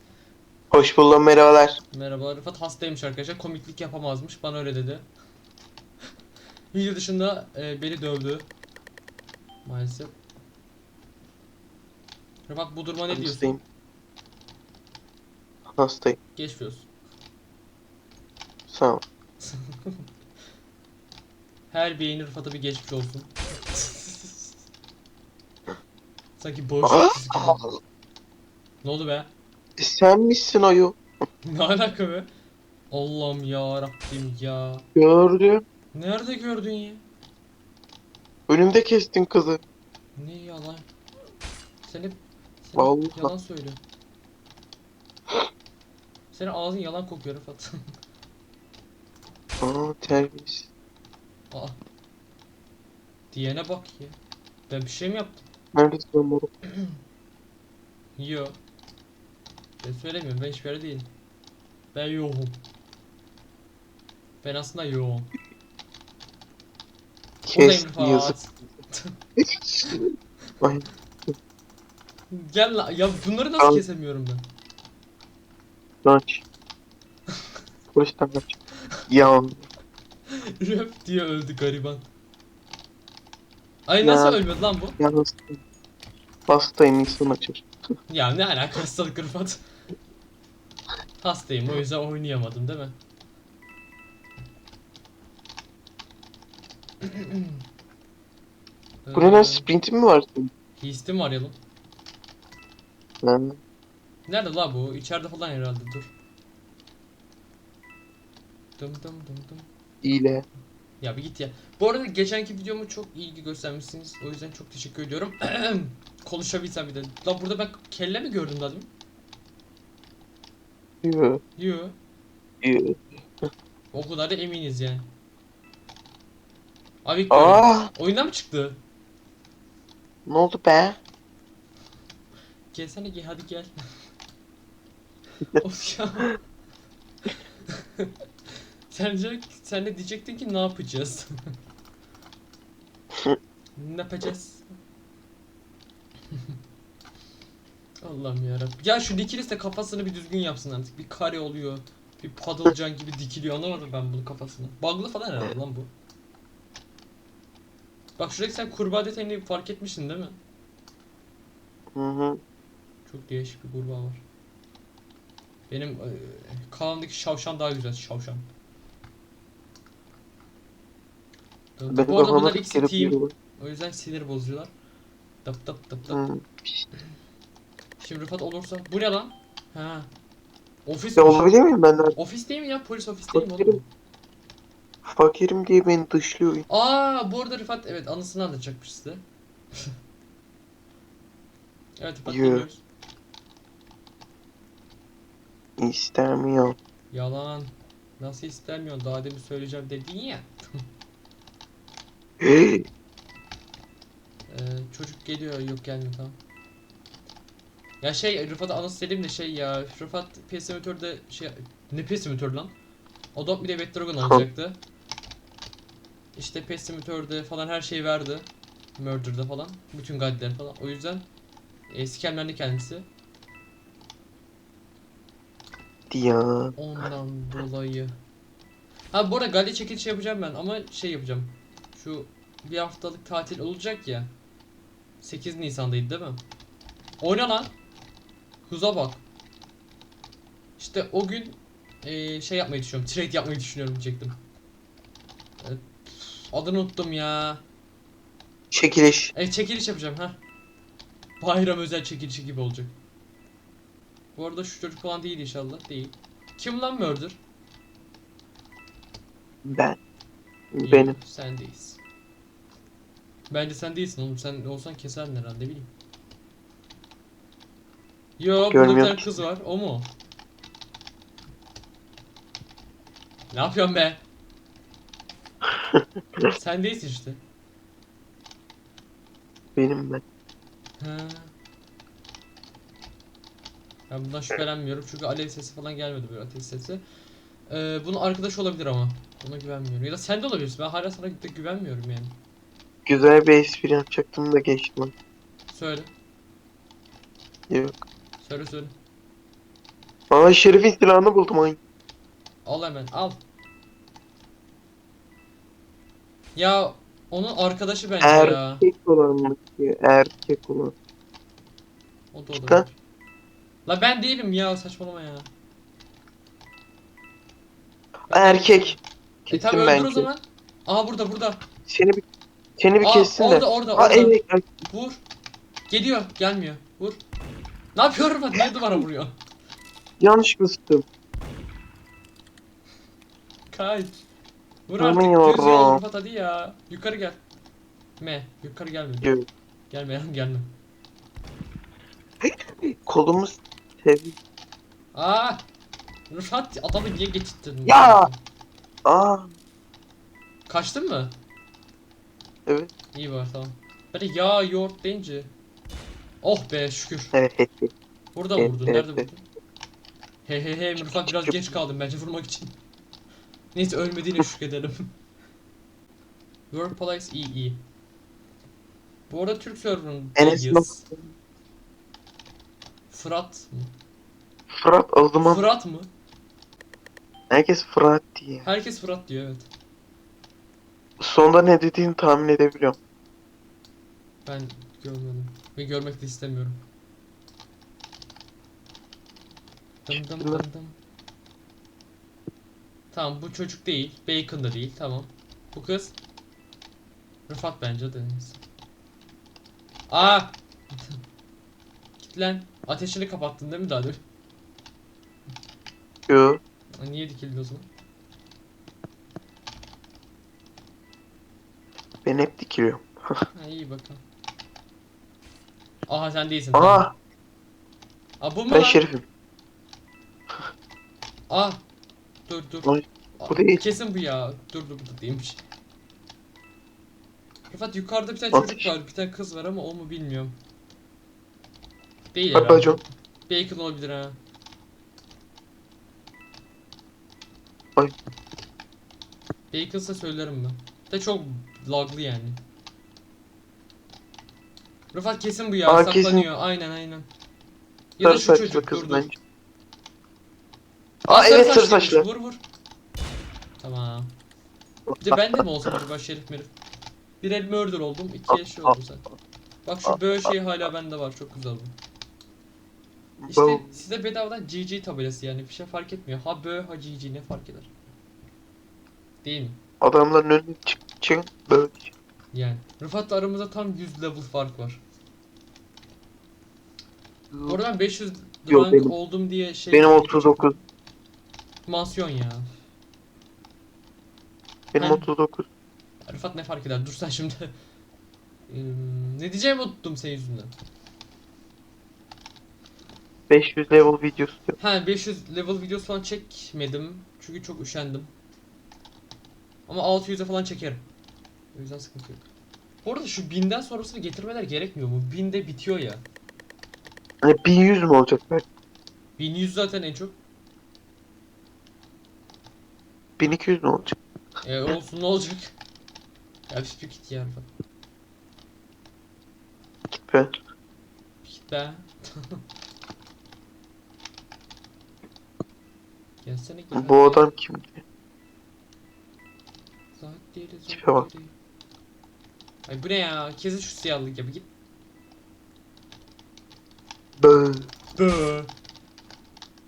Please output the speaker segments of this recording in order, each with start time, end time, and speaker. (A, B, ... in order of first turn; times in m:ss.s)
0:00.7-0:01.8 A
0:01.9-0:05.1 B
0:06.7-0:08.5 B
0:09.6-0:10.1 B
0:12.5-0:13.6 B
0:13.1-0:13.6 A
0:15.7-0:16.2 A
0:16.4-0:16.9 B
0:18.7-0:19.0 A
0:19.4-0:20.0 B
0:21.7-0:24.5 B
0:26.4-0:27.7 B
0:26.8-0:27.7 A
0:28.8-0:29.3 B
0:29.8-0:31.0 A
0:31.5-0:32.3 B
0:32.9-0:34.8 B
0:35.0-0:35.6 A
0:35.9-0:37.0 B
0:38.5-0:39.6 A
0:40.2-0:40.8 B
0:41.8-0:43.8 B
0:42.8-0:43.3 A
0:46.3-0:47.7 B
0:49.6-0:50.7 A
0:51.5-0:51.8 B
0:53.3-0:54.2 B
0:54.7-0:55.4 B
0:55.7-0:56.5 A
0:58.2-0:58.5 B
0:59.8-1:01.1 B
1:01.9-1:02.6 B
1:04.4-1:05.3 B
1:07.4-1:08.4 A
1:07.5-1:09.1 B
1:09.4-1:10.0 A
1:10.6-1:10.9 A
1:12.3-1:14.4 B
1:16.0-1:16.4 A
1:17.9-1:18.5 A
1:19.1-1:19.6 A
1:20.6-1:22.1 B
1:23.9-1:25.0 B
1:24.0-1:24.4 A
1:25.0-1:25.6 A
1:26.5-1:27.6 A
1:28.1-1:29.6 B
1:31.2-1:33.0 B
1:37.0-1:37.5 B
1:39.0-1:39.7 B
1:39.1-1:40.5 A
1:40.8-1:41.6 B
1:43.2-1:43.6 A
1:44.3-1:46.1 B
1:48.8-1:49.6 B
1:50.0-1:50.5 A
1:51.0-1:58.9 B
2:01.0-2:01.4 A
2:01.6-2:01.9 B
2:02.6-2:03.0 A
2:03.9-2:05.0 B
2:07.0-2:08.8 B
2:07.3-2:07.9 A
2:10.2-2:11.0 A
2:12.7-2:13.7 B
2:15.6-2:16.4 B
2:18.9-2:21.3 B
2:23.8-2:24.7 B
2:28.0-2:35.9 B
2:38.2-2:40.4 B
2:41.9-2:42.4 A
2:43.1-2:44.2 B
2:45.7-2:48.4 B
2:51.8-2:54.7 B
2:51.9-2:53.3 A
2:55.4-2:56.2 B
2:56.1-2:56.8 A
2:58.0-3:00.1 B
3:00.8-3:01.5 B
3:01.2-3:02.1 A
3:02.2-3:03.8 B
3:03.3-3:03.8 A
3:05.0-3:06.6 A
3:06.7-3:09.2 B
3:12.0-3:12.8 B
3:12.3-3:12.6 A
3:15.8-3:16.8 A
3:17.1-3:20.5 B
3:22.4-3:22.9 A
3:24.5-3:26.4 B
3:28.0-3:32.7 B
3:33.3-3:34.8 B
3:34.2-3:34.4 A
3:36.4-3:41.2 B
3:41.9-3:43.1 B
3:46.1-3:46.8 A
3:46.8-3:48.1 B
3:49.1-3:54.3 B
3:55.2-3:56.4 B
3:57.2-3:57.7 B
3:58.7-3:59.2 B
4:00.8-4:04.4 B
4:05.6-4:07.6 B
4:08.7-4:09.3 A
4:09.3-4:10.4 B
4:11.4-4:12.9 B
4:14.4-4:17.4 B
4:19.6-4:20.0 A
4:20.7-4:21.2 A
4:20.8-4:22.0 B
4:23.5-4:25.9 B
4:28.4-4:30.1 B
4:28.7-4:29.4 A
4:33.5-4:34.2 B
4:35.9-4:36.5 A
4:36.5-4:37.4 B
4:39.8-4:40.2 A
4:41.0-4:41.5 B
4:44.1-4:47.0 B
4:47.7-4:52.3 B
4:53.0-4:55.1 A
4:55.7-4:56.1 B
4:57.7-4:58.0 A
4:58.4-4:58.9 B
5:00.3-5:01.8 A
5:02.6-5:03.4 B
5:06.5-5:08.8 B
5:08.2-5:10.9 A
5:12.3-5:13.0 B
5:13.8-5:15.5 B
5:18.3-5:19.0 B
5:18.3-5:20.3 A
5:19.5-5:21.6 B
5:21.9-5:22.2 A
5:22.8-5:24.7 A
5:23.0-5:25.2 B
5:25.9-5:27.2 B
5:27.9-5:29.4 B
5:30.2-5:31.1 A
5:33.7-5:34.2 B
5:34.9-5:37.4 B
5:35.0-5:36.0 A
5:38.2-5:39.3 B
5:39.9-5:40.7 B
5:42.4-5:44.4 A
5:45.1-5:45.6 B
5:46.3-5:48.4 B
5:47.8-5:48.3 A
5:49.0-5:49.5 A
5:50.7-5:51.4 B
5:53.1-5:55.5 B
5:56.4-5:57.3 B
5:57.3-5:57.9 A
5:58.3-5:59.4 B
5:58.6-5:59.3 A
6:00.4-6:02.7 B
6:01.0-6:01.6 A
6:03.7-6:05.1 B
6:06.7-6:07.8 B
6:09.3-6:11.0 B
6:10.4-6:11.3 A
6:13.1-6:13.9 B
6:14.7-6:15.6 A
6:15.4-6:16.1 B
6:17.5-6:18.7 A
6:18.6-6:19.7 B
6:21.2-6:23.0 A
6:24.4-6:26.8 B
6:30.0-6:31.0 B
6:33.1-6:36.2 B
6:37.5-6:38.6 B
6:40.1-6:41.2 B
6:42.2-6:44.2 B
6:46.3-6:46.6 A
6:47.0-6:47.9 B
6:52.2-6:53.4 A
6:53.5-6:54.2 B
6:56.1-6:57.0 B
6:56.7-6:57.1 A
6:58.4-6:59.0 B
6:58.7-6:59.2 A
7:01.5-7:01.8 B
7:02.5-7:05.6 B
7:02.8-7:03.8 A
7:07.7-7:10.6 B
7:08.5-7:08.8 A
7:12.3-7:14.4 B
7:12.5-7:13.0 A
7:19.7-7:22.6 B
7:25.1-7:27.3 B
7:25.9-7:26.5 A
7:28.2-7:29.3 B
7:28.2-7:29.4 A
7:31.2-7:32.2 A
7:31.3-7:32.6 B
7:33.8-7:34.3 B
7:35.2-7:36.7 B
7:37.4-7:39.2 B
7:38.5-7:38.9 A
7:39.8-7:41.9 B
7:43.4-7:44.0 A
7:43.5-7:47.9 B
7:49.4-7:49.8 B
7:50.0-7:52.1 A
7:52.5-7:55.0 B
7:57.5-7:57.8 A
7:57.7-8:00.8 B
7:58.7-7:59.1 A
7:59.9-8:00.8 A
8:01.8-8:02.6 B
8:04.9-8:05.7 A
8:05.0-8:05.3 B
8:06.2-8:07.7 B
8:08.7-8:10.7 B
8:13.5-8:14.8 A
8:14.8-8:18.3 B
8:19.9-8:21.0 B
8:21.7-8:22.4 B
8:23.0-8:26.2 B
8:27.4-8:28.6 A
8:29.4-8:30.4 B
8:33.4-8:34.2 A
8:34.6-8:35.7 B
8:36.7-8:37.6 B
8:40.2-8:40.5 A
8:41.4-8:42.6 B
8:46.4-8:47.5 B
8:46.9-8:48.0 A
8:50.1-8:51.5 B
8:50.9-8:51.3 A
8:52.8-8:54.7 B
8:57.4-8:57.9 A
8:58.2-8:58.7 B